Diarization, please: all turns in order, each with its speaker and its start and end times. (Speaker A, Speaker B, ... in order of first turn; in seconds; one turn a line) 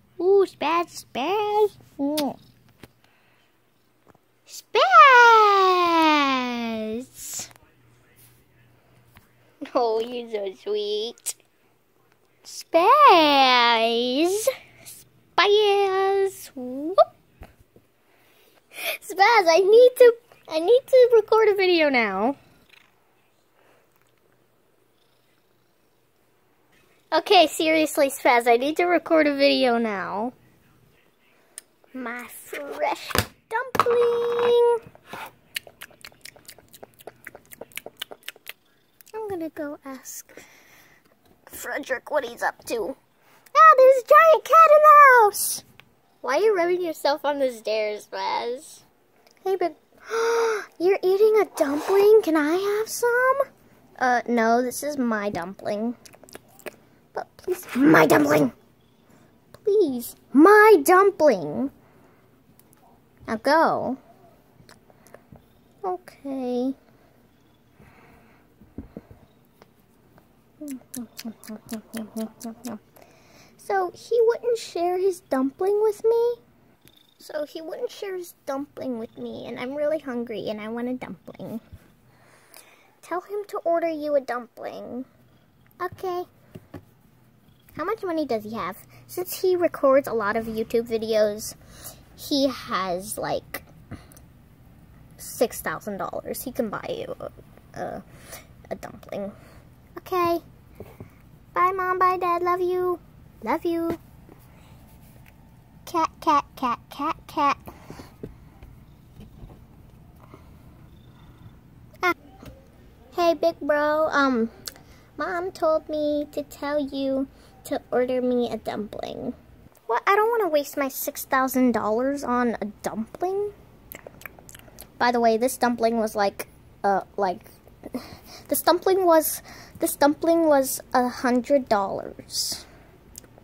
Speaker A: 0.2-2.4
Speaker A: 4.5-7.5
Speaker A: 9.6-11.4
Speaker A: 12.4-14.5
Speaker A: 15.3-17.0
Speaker A: 18.8-22.4
Speaker A: 27.1-30.3
Speaker A: 31.9-34.8
Speaker A: 39.1-40.4
Speaker A: 41.5-43.0
Speaker A: 43.5-45.6
Speaker A: 46.2-48.8
Speaker A: 49.4-53.5
Speaker A: 54.0-56.0
Speaker A: 57.1-58.5
Speaker A: 59.5-61.7
Speaker A: 63.3-64.0
Speaker A: 65.8-66.8
Speaker A: 70.6-72.8
Speaker A: 73.6-76.4
Speaker A: 77.2-81.6
Speaker A: 83.0-85.1
Speaker A: 85.8-86.3
Speaker A: 87.7-91.5
Speaker A: 92.1-93.7
Speaker A: 95.2-98.0
Speaker A: 98.7-99.3
Speaker A: 100.0-100.4
Speaker A: 101.5-104.0
Speaker A: 105.8-107.6
Speaker A: 113.1-114.5
Speaker A: 115.2-123.5
Speaker A: 125.0-132.6